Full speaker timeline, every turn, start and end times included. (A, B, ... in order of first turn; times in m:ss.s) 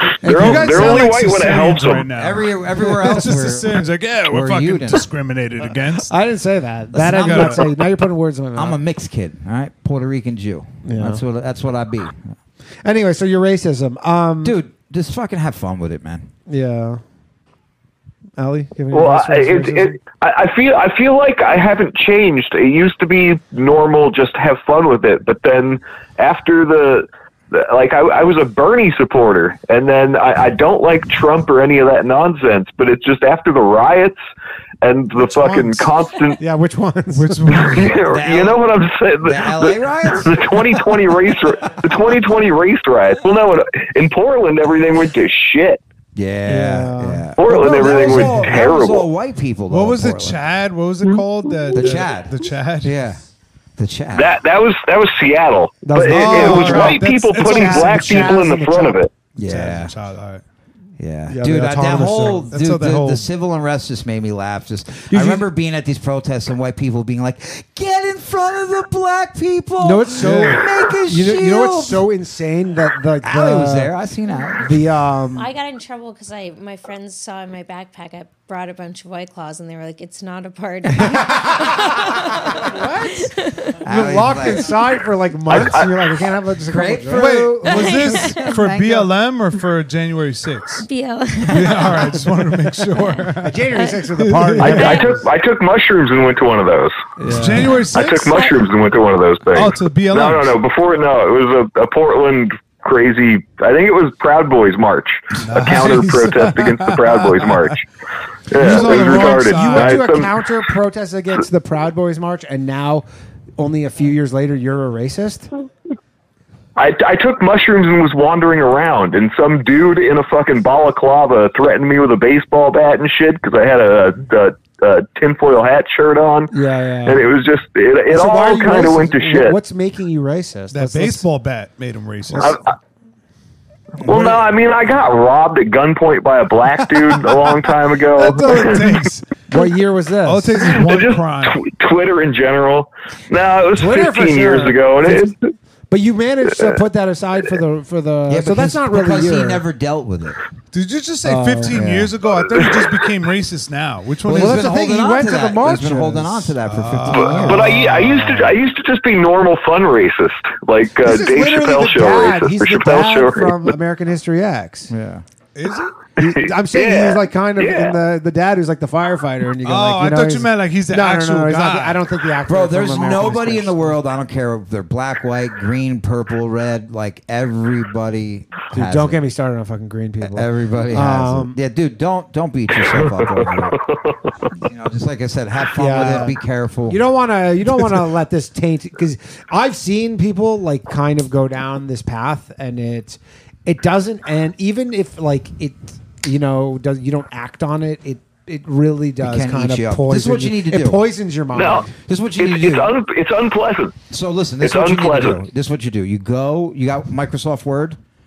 0:00.2-0:06.1 A
0:00.2-0:02.1 B
0:00.2-0:01.1 C
0:02.1-0:05.1 D
0:06.1-0:08.8 C
0:06.9-0:07.6 D
0:07.1-0:07.6 A
0:08.6-0:12.3 D
0:10.8-0:11.2 C
0:12.8-0:14.6 C
0:14.4-0:16.3 D
0:16.5-0:17.0 C
0:18.4-0:20.0 C
0:18.9-0:34.2 B
0:34.8-0:36.4 B
0:35.2-0:37.9 C
0:37.1-0:37.9 A
0:37.6-0:45.8 B
0:38.1-0:38.6 D
0:39.2-0:40.4 D
0:46.1-0:50.4 D
0:46.4-0:47.3 C
0:47.4-0:49.1 B
0:47.8-0:48.5 C
0:48.3-0:48.5 A
0:49.7-0:53.0 A
0:51.7-0:53.2 D
0:53.8-0:54.3 D
0:54.1-0:59.1 B
0:55.9-0:59.0 C
0:56.0-0:58.4 A
0:59.4-0:59.9 D
0:59.4-1:00.4 A
1:01.0-1:12.0 D
1:01.3-1:02.5 C
1:02.4-1:03.2 A
1:05.1-1:05.4 C
1:09.8-1:14.0 C
1:10.2-1:10.7 A
1:13.2-1:14.7 D
1:14.3-1:14.7 E
1:14.6-1:15.5 C
1:15.4-1:23.8 E
1:23.8-1:24.7 D
1:23.8-1:27.6 C
1:26.7-1:29.1 D
1:27.1-1:30.8 A
1:27.6-1:28.6 E
1:30.8-1:32.0 E
1:31.5-1:33.7 A
1:32.9-1:34.0 E
1:33.4-1:35.3 C
1:34.2-1:34.9 A
1:34.6-1:35.2 E
1:34.7-1:37.0 B
1:37.2-1:37.8 C
1:37.3-1:38.5 A
1:37.9-1:47.8 B
1:38.3-1:38.6 E
1:39.5-1:40.6 A
1:45.4-1:47.8 A
1:48.5-1:50.3 B
1:48.5-1:50.0 A
1:48.6-1:53.0 C
1:53.6-1:55.5 C
1:56.8-2:06.5 B
2:06.5-2:07.3 C
2:07.0-2:09.6 B
2:08.1-2:11.2 C
2:10.7-2:12.6 A
2:12.4-2:12.7 B
2:14.0-2:19.0 B
2:14.0-2:14.4 A
2:18.1-2:19.4 A
2:19.5-2:20.8 C
2:20.2-2:21.6 A
2:20.7-2:25.4 B
2:23.8-2:25.4 C
2:25.9-2:29.6 C
2:28.3-2:30.4 D
2:30.7-2:34.6 A
2:31.2-2:31.9 C
2:31.7-2:32.2 D
2:32.6-2:32.9 B
2:34.3-2:36.6 C
2:34.3-2:37.6 D
2:36.6-2:38.6 A
2:37.1-2:43.6 B
2:37.2-2:37.6 C
2:41.0-2:44.9 C
2:44.9-2:45.2 D
2:45.6-2:46.0 A
2:46.2-2:54.0 C
2:46.4-2:48.0 B
2:49.6-2:52.0 A
2:52.4-2:59.2 D
2:58.7-3:01.6 C
3:00.2-3:03.7 D
3:02.9-3:04.2 B
3:04.6-3:07.0 D
3:05.7-3:22.0 C
3:19.2-3:21.0 D
3:21.5-3:24.0 B
3:21.9-3:22.9 D
3:24.1-3:28.0 D
3:24.6-3:25.4 B